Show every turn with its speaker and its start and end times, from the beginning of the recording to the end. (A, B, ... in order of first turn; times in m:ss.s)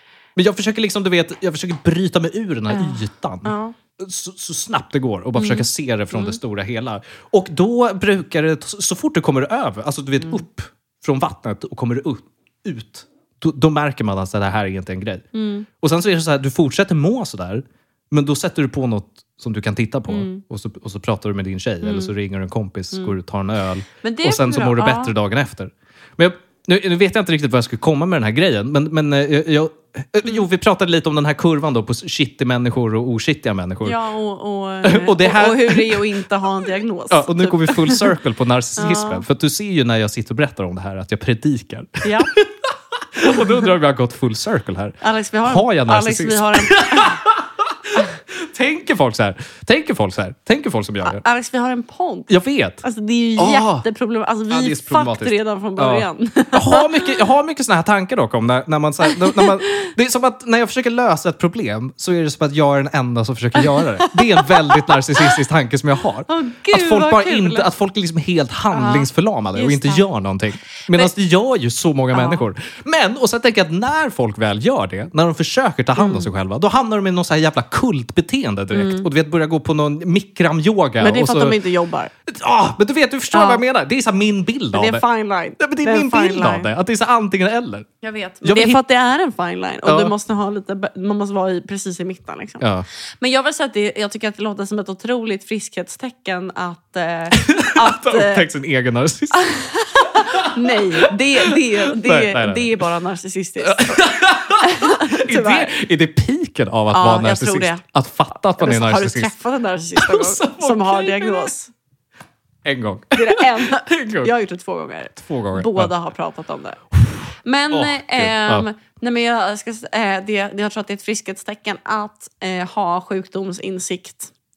0:00.4-0:15.2 A
0:02.7-0:03.8 B
0:05.4-0:06.4 B
0:15.3-0:15.7 B
0:15.8-0:34.0 A
0:20.1-0:20.4 B
0:21.8-0:22.1 B
0:24.0-0:25.1 B
0:33.8-0:38.1 B
0:34.8-0:36.2 A
0:37.1-0:51.2 A
0:38.8-0:39.2 B
0:42.0-0:42.3 B
0:43.3-0:43.7 B
0:45.0-0:47.2 B
0:51.0-0:52.3 B
0:52.3-0:52.8 A
0:52.8-0:57.2 B
0:53.4-0:53.8 A
0:54.5-1:21.6 A
0:59.1-0:59.9 B
1:03.6-1:05.4 B
1:06.3-1:07.7 B
1:08.7-1:10.1 B
1:12.1-1:12.4 B
1:16.0-1:16.3 B
1:18.7-1:19.1 B
1:21.0-1:22.1 B
1:22.2-1:25.0 A
1:23.3-1:23.6 B
1:24.7-1:26.7 B
1:25.6-1:27.9 A
1:28.0-1:32.6 B
1:28.4-1:28.8 A
1:29.9-1:30.1 A
1:32.6-1:32.9 A
1:33.2-1:38.5 B
1:37.3-1:39.5 A
1:39.3-1:45.8 B
1:40.0-1:42.8 A
1:43.6-1:49.3 A
1:46.9-1:47.8 B
1:48.6-1:51.7 B
1:50.0-1:51.5 A
1:52.6-1:54.3 A
1:53.2-1:56.8 B
1:55.2-1:55.9 A
1:57.0-1:58.7 A
1:57.4-2:04.3 B